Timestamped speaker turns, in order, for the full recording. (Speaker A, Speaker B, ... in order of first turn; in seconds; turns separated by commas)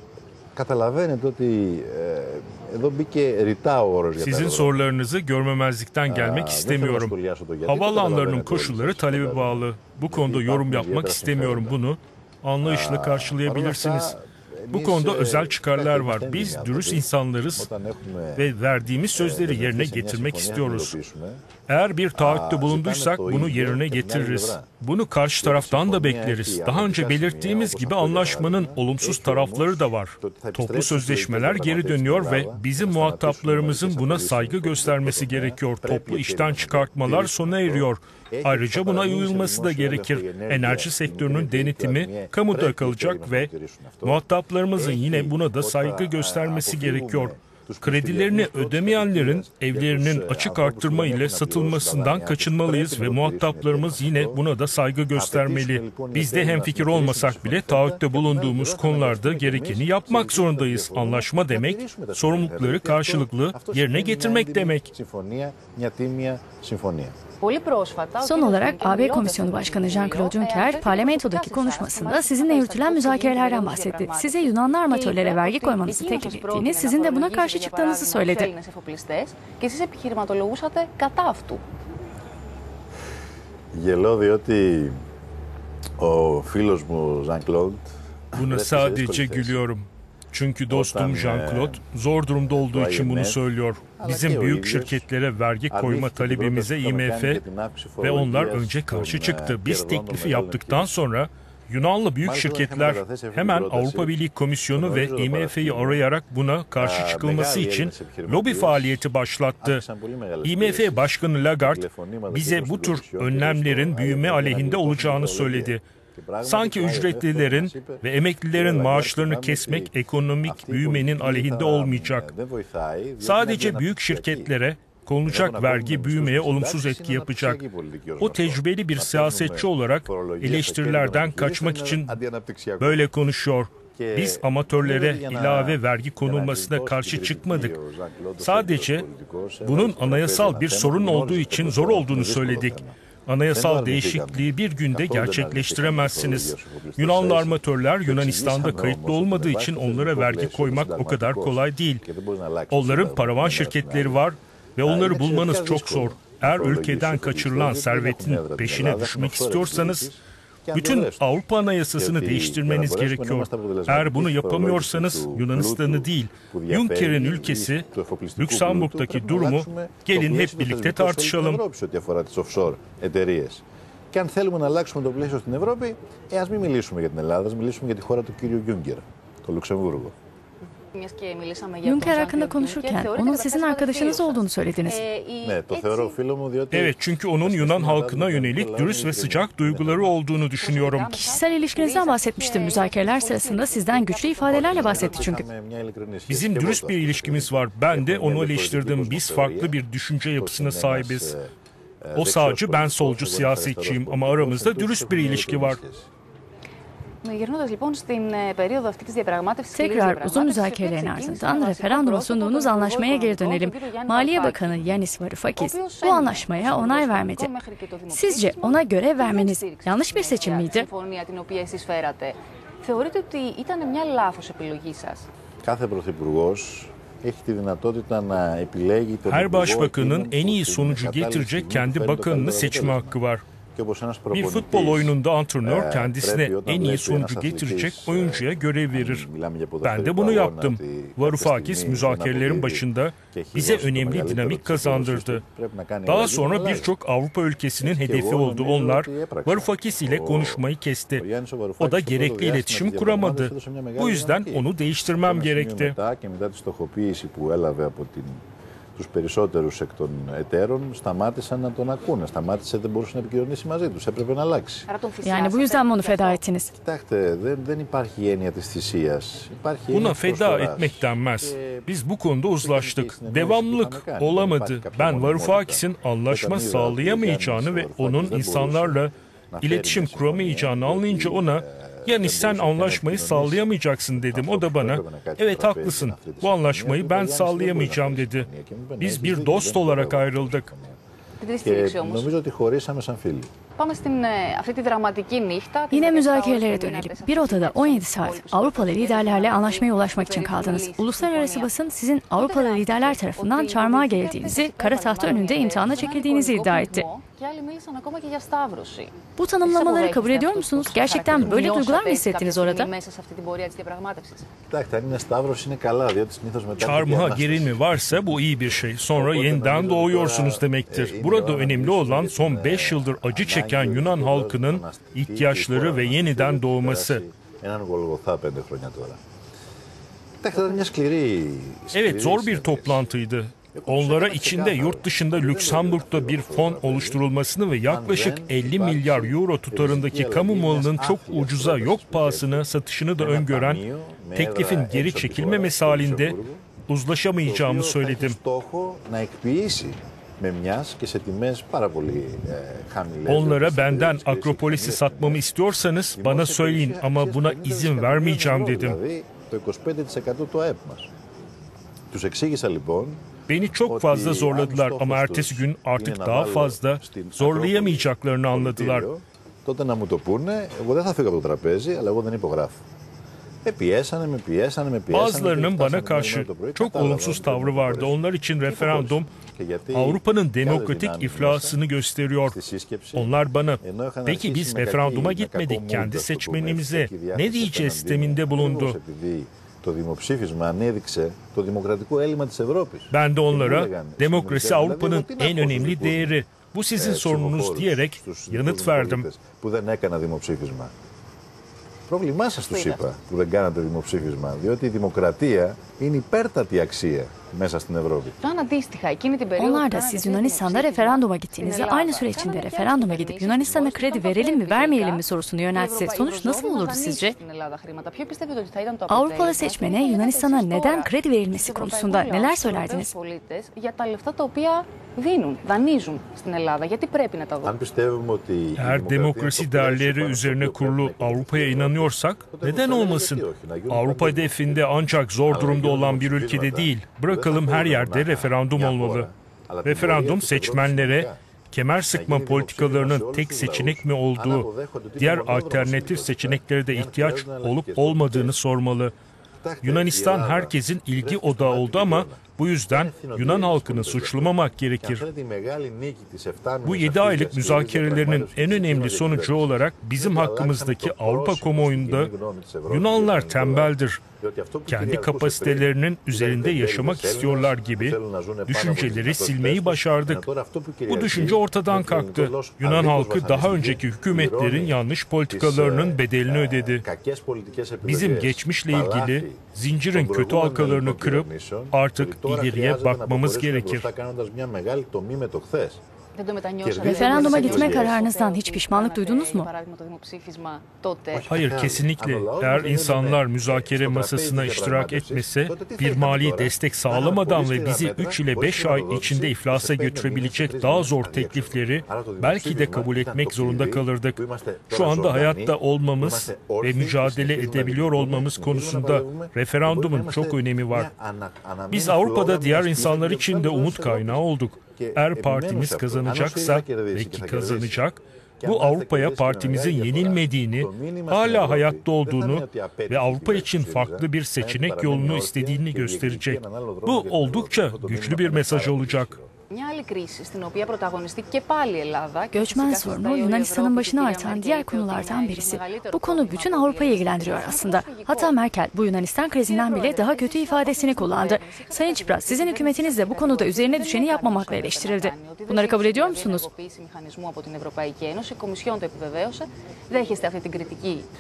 Speaker A: 0.5-4.8, Speaker B: 4.2-7.1, Speaker A: 6.1-11.8, Speaker B: 7.7-14.2, Speaker A: 12.6-18.5, Speaker B: 14.7-17.7, Speaker B: 18.4-21.0, Speaker A: 19.1-21.4, Speaker B: 21.7-43.5, Speaker A: 22.1-24.7, Speaker A: 25.4-44.2, Speaker B: 44.0-64.9, Speaker A: 44.8-54.4, Speaker A: 55.1-67.2, Speaker C: 67.4-81.6, Speaker D: 68.2-78.5, Speaker A: 83.7-85.0, Speaker A: 86.0-89.6, Speaker B: 88.3-97.4, Speaker A: 90.7-91.8, Speaker A: 92.5-93.4, Speaker A: 94.0-95.0, Speaker A: 95.7-101.0, Speaker B: 98.0-109.8, Speaker A: 102.2-104.2, Speaker A: 104.7-106.0, Speaker A: 106.8-109.0, Speaker A: 109.6-124.5, Speaker B: 110.4-115.8, Speaker B: 116.4-122.3, Speaker B: 123.2-127.6, Speaker A: 125.2-133.1, Speaker B: 128.2-132.2, Speaker B: 132.8-137.8, Speaker A: 133.9-142.9, Speaker B: 138.4-139.0, Speaker B: 139.6-152.0, Speaker A: 143.5-154.2, Speaker B: 152.7-160.1, Speaker A: 154.8-161.3, Speaker B: 160.7-167.8, Speaker A: 161.9-180.1, Speaker B: 168.4-171.6, Speaker C: 180.9-186.2, Speaker D: 181.8-185.0, Speaker A: 185.4-190.2, Speaker B: 186.7-191.3, Speaker C: 190.6-195.4, Speaker D: 191.3-195.4, Speaker A: 194.4-199.8, Speaker B: 196.3-201.3, Speaker A: 200.3-206.1, Speaker B: 202.1-205.8, Speaker C: 207.2-215.0, Speaker D: 209.7-217.5, Speaker C: 215.6-225.2, Speaker D: 218.1-220.9, Speaker A: 225.6-233.2, Speaker B: 229.2-233.4, Speaker A: 233.7-246.9, Speaker B: 234.3-239.3, Speaker B: 239.8-245.4, Speaker B: 246.1-251.2, Speaker A: 247.8-250.6, Speaker A: 251.2-254.7, Speaker B: 251.8-256.0, Speaker A: 255.2-258.4, Speaker A: 258.9-264.9, Speaker C: 264.9-266.4, Speaker D: 265.2-266.7, Speaker A: 266.7-271.9, Speaker B: 269.9-288.5, Speaker A: 272.5-283.7, Speaker A: 284.3-291.0, Speaker B: 289.0-290.7, Speaker C: 291.4-292.3, Speaker A: 291.6-293.5, Speaker C: 293.8-301.7, Speaker D: 295.9-307.0, Speaker C: 302.3-314.5, Speaker D: 309.4-312.9, Speaker A: 314.7-318.4, Speaker B: 316.8-327.2, Speaker A: 319.1-329.2, Speaker A: 330.4-333.1, Speaker B: 331.9-343.8, Speaker A: 333.7-337.2, Speaker A: 337.9-342.6, Speaker A: 343.2-346.7, Speaker B: 344.3-348.4, Speaker A: 347.4-355.5, Speaker B: 353.2-359.0, Speaker A: 356.1-361.1, Speaker A: 362.1-363.2, Speaker B: 363.5-369.1, Speaker A: 363.8-372.8, Speaker A: 373.6-381.8, Speaker B: 375.1-379.3, Speaker B: 379.9-382.6, Speaker A: 382.4-396.4, Speaker B: 383.1-389.0, Speaker B: 393.1-399.3, Speaker A: 396.9-400.9, Speaker A: 402.1-408.4, Speaker C: 402.6-403.0, Speaker C: 408.4-427.8, Speaker D: 409.6-417.4, Speaker D: 419.1-423.1, Speaker A: 427.6-434.8, Speaker B: 428.8-439.3, Speaker A: 435.4-441.4, Speaker B: 439.8-449.1, Speaker A: 442.1-448.6, Speaker A: 449.6-486.0, Speaker B: 449.8-455.2, Speaker B: 456.8-462.3, Speaker B: 462.9-464.2, Speaker B: 464.9-468.2, Speaker B: 468.7-470.4, Speaker B: 471.1-477.0, Speaker B: 478.0-484.1, Speaker C: 486.3-491.5, Speaker A: 486.8-488.2, Speaker D: 487.0-489.7, Speaker A: 491.3-518.0, Speaker B: 491.5-504.4, Speaker B: 504.9-511.1, Speaker B: 511.9-529.3, Speaker A: 518.6-529.5, Speaker C: 529.7-538.6, Speaker D: 532.5-546.7, Speaker C: 539.5-551.3